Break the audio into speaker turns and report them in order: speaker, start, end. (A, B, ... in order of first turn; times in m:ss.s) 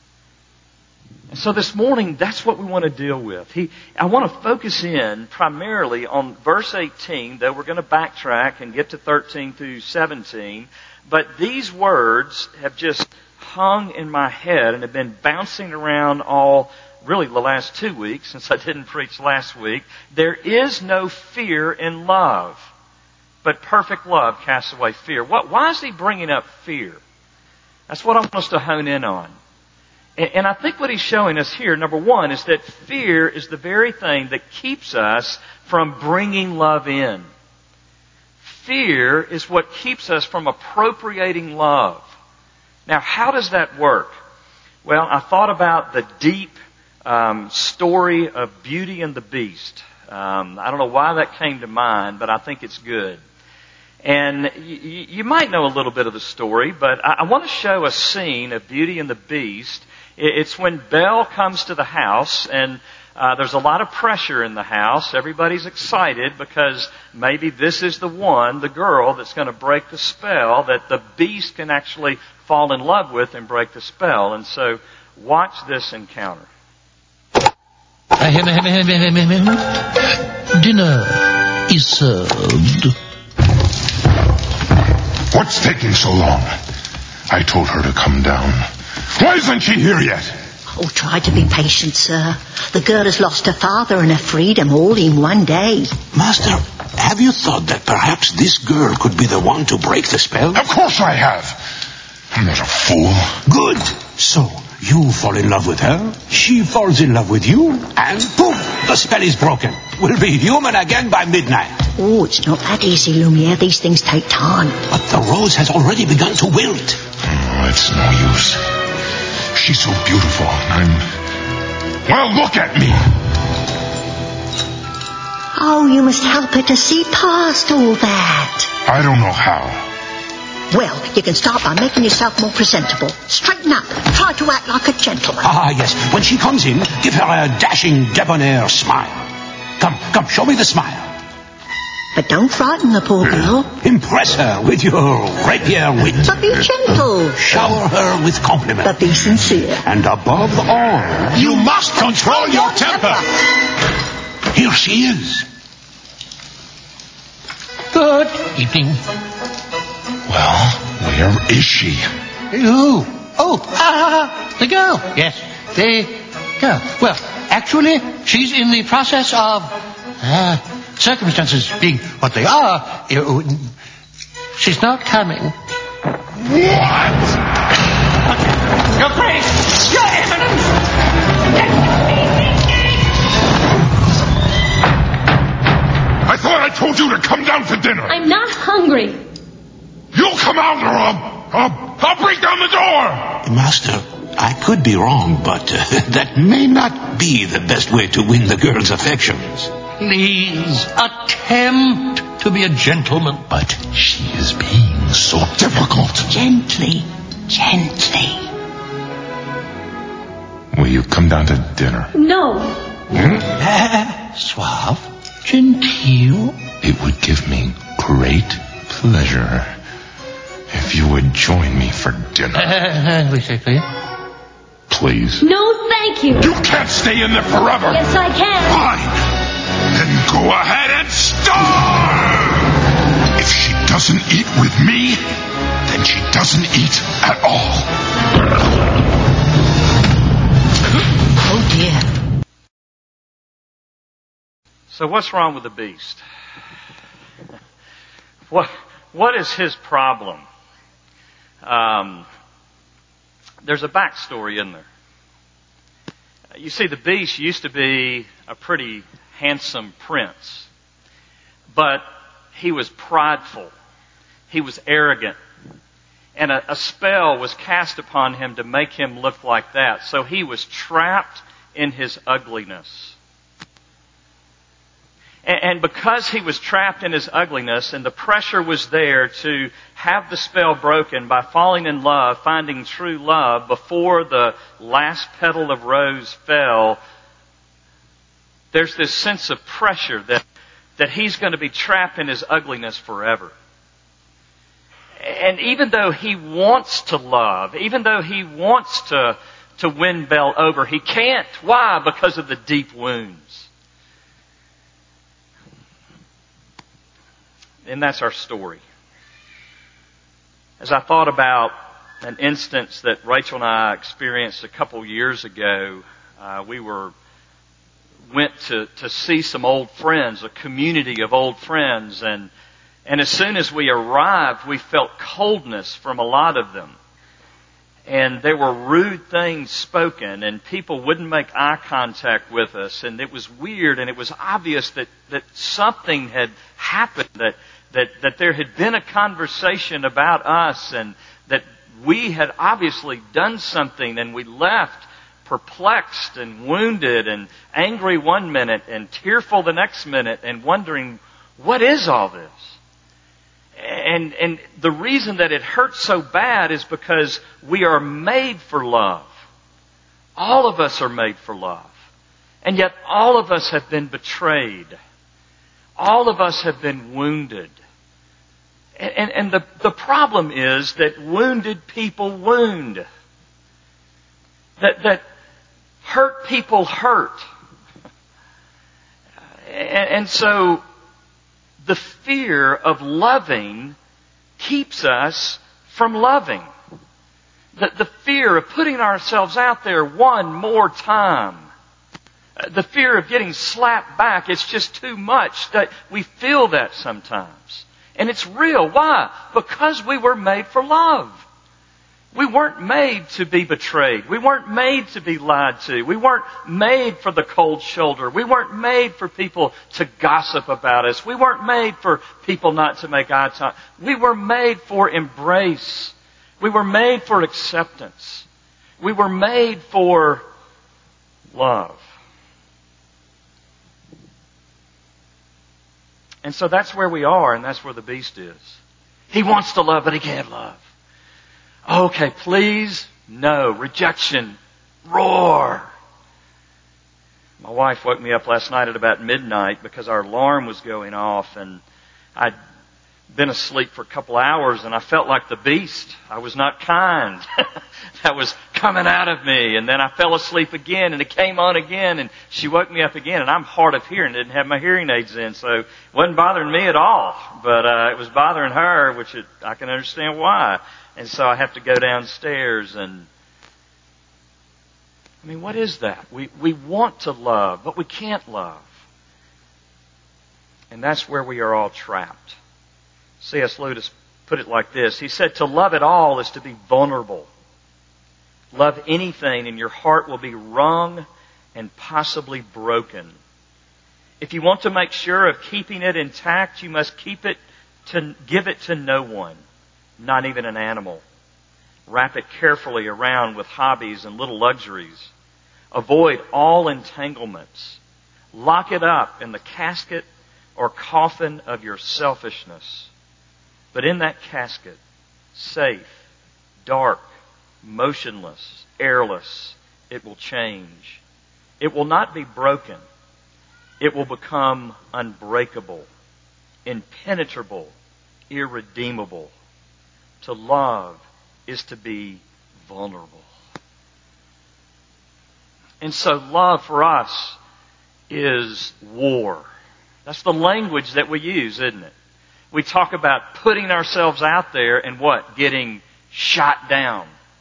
0:01.3-0:22.7 A
0:23.4-0:27.0 A
0:27.9-0:29.3 A
0:30.2-0:37.3 A
0:38.4-0:42.1 A
0:42.8-0:44.2 A
0:44.8-0:53.2 A
0:54.0-1:16.5 A
1:18.2-1:19.8 B
1:20.5-1:22.9 B
1:25.3-1:26.5 C
1:27.3-1:30.3 C
1:30.7-1:36.0 D
1:36.1-1:40.6 E
1:40.5-1:41.6 C
1:42.3-1:43.4 C
1:43.5-1:51.9 E
1:52.0-1:54.8 D
1:54.9-1:57.0 E
1:57.2-1:58.6 C
1:59.5-2:01.1 C
2:02.0-2:03.1 C
2:05.5-2:08.7 D
2:08.8-2:09.8 C
2:10.7-2:15.5 D
2:15.4-2:19.2 E
2:19.8-2:21.1 E
2:22.1-2:23.7 D
2:23.8-2:26.4 E
2:26.2-2:27.6 D
2:27.4-2:28.9 E
2:28.8-2:29.8 D
2:29.8-2:33.2 E
2:31.4-2:33.2 D
2:34.5-2:35.4 E
2:37.9-2:39.0 B
2:40.3-2:42.1 C
2:42.5-2:53.7 B
2:54.5-2:55.6 B
2:56.4-2:57.4 C
2:59.0-3:00.4 B
3:06.2-3:08.1 C
3:08.1-3:09.2 F
3:10.1-3:13.4 C
3:13.4-3:19.7 E
3:19.9-3:24.0 B
3:24.0-3:26.3 C
3:26.3-3:28.5 D
3:30.7-3:32.1 C
3:32.1-3:32.8 F
3:33.8-3:36.6 B
3:36.8-3:39.7 C
3:40.7-3:42.8 C
3:42.6-3:43.8 B
3:44.9-3:45.4 C
3:45.4-3:46.5 F
3:46.4-3:48.0 C
3:47.9-3:48.8 F
3:48.7-3:49.2 C
3:49.9-3:52.5 C
3:53.4-3:55.2 C
3:55.9-3:57.9 C
4:01.5-4:02.0 D
4:04.9-4:06.2 A
4:08.5-4:10.4 A
4:11.6-4:12.2 A
4:13.6-4:14.8 A
4:16.5-4:20.7 A
4:21.7-4:23.7 A
4:24.5-4:25.4 A
4:26.4-4:33.2 A
4:35.4-4:47.0 A
4:48.7-4:50.4 A
4:51.0-4:53.5 A
4:55.2-5:03.7 A
5:07.8-5:08.8 A
5:10.8-5:17.1 A
5:18.3-5:22.5 A
5:23.0-5:27.0 A
5:28.0-5:52.8 A
5:53.8-5:59.3 A
6:00.4-6:01.9 A
6:02.6-6:05.0 A
6:06.0-6:07.7 A
6:09.0-6:13.0 A
6:14.8-6:15.2 A
6:16.0-6:17.4 A
6:19.6-6:20.8 A
6:21.8-6:24.0 A
6:24.6-6:26.7 A
6:27.7-6:31.7 A
6:32.6-6:41.4 A
6:42.3-6:58.4 A
6:59.0-7:00.4 A
7:01.5-7:02.0 A
7:06.4-7:08.8 A
7:09.3-7:10.8 A
7:11.9-7:15.9 A
7:17.6-7:21.8 A
7:23.3-7:27.4 A
7:28.2-7:43.3 A
7:45.4-7:48.9 A
7:50.9-7:52.6 A
7:53.4-7:57.5 A
7:58.7-8:03.3 A
8:04.4-8:09.6 A
8:10.2-8:11.2 A
8:12.1-8:15.3 A
8:15.9-8:18.0 A
8:18.5-8:23.1 A
8:23.9-8:25.0 A
8:25.5-8:26.2 A
8:26.8-8:27.2 A
8:27.8-8:31.2 A
8:31.8-8:33.0 A
8:34.0-8:36.1 A
8:36.8-8:37.9 A
8:38.5-8:39.5 A
8:40.4-8:43.5 A
8:46.0-8:47.6 A
8:48.3-8:49.7 A
8:50.2-8:52.1 A
8:52.7-8:57.3 A